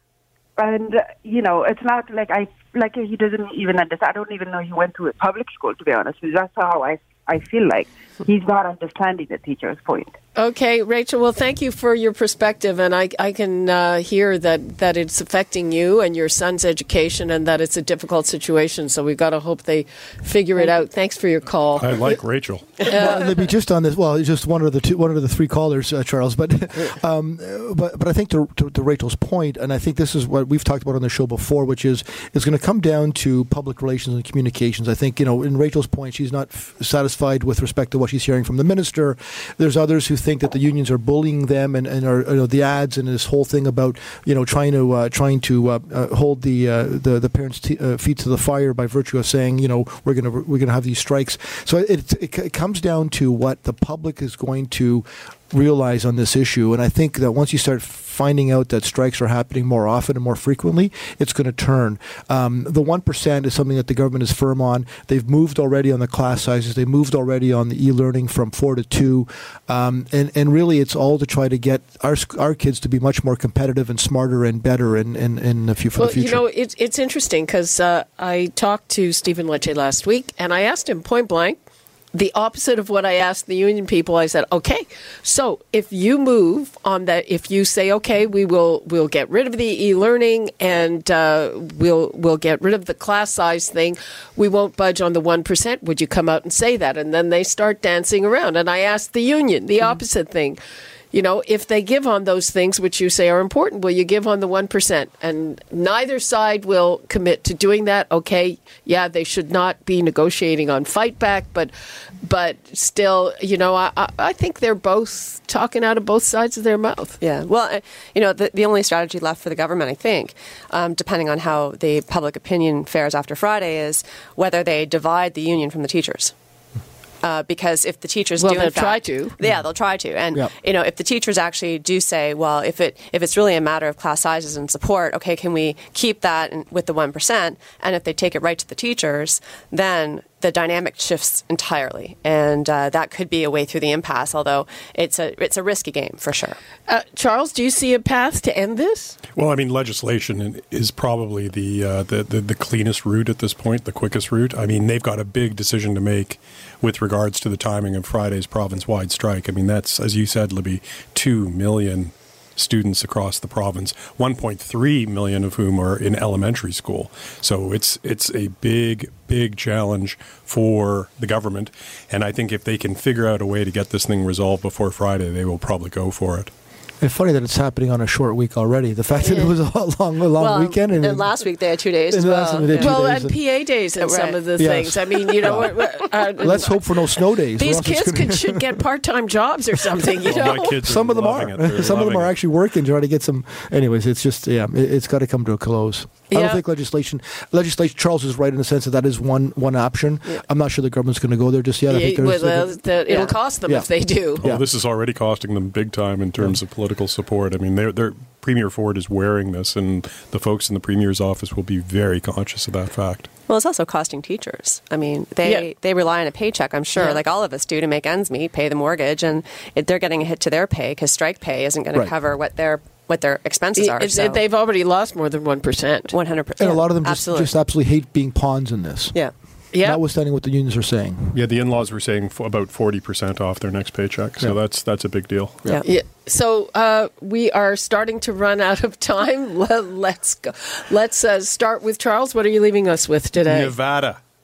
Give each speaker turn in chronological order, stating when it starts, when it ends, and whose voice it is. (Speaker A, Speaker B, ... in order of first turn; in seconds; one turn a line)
Speaker A: 0.6-10.1
Speaker B: 10.4-22.1
Speaker C: 21.8-22.9
Speaker B: 22.8-23.5
Speaker D: 22.9-76.4
Speaker B: 76.0-81.6
Speaker B: 82.1-100.6
Speaker B: 101.1-111.7
Speaker B: 112.2-117.2
Speaker E: 117.2-126.3
Speaker E: 127.2-146.6
Speaker B: 128.4-129.3
Speaker B: 146.9-149.2
Speaker C: 149.3-176.5
Speaker D: 177.0-181.4
Speaker B: 179.2-179.5
Speaker E: 180.4-183.0
Speaker D: 182.1-183.3
Speaker B: 182.7-186.8
Speaker E: 184.0-184.4
Speaker D: 184.6-185.8
Speaker E: 185.2-185.6
Speaker D: 186.4-188.8
Speaker B: 187.6-190.8
Speaker C: 190.2-192.3
Speaker D: 190.2-204.6
Speaker B: 196.3-196.6
Speaker B: 201.9-204.4
Speaker E: 203.1-203.4
Speaker C: 204.4-213.3
Speaker E: 213.5-224.4
Speaker B: 217.0-217.2
Speaker B: 223.8-226.1
Speaker E: 226.1-227.5
Speaker D: 226.6-229.2
Speaker B: 229.7-230.0
Speaker D: 229.8-231.4
Speaker C: 231.3-235.6
Speaker B: 235.8-243.7
Speaker C: 243.5-244.2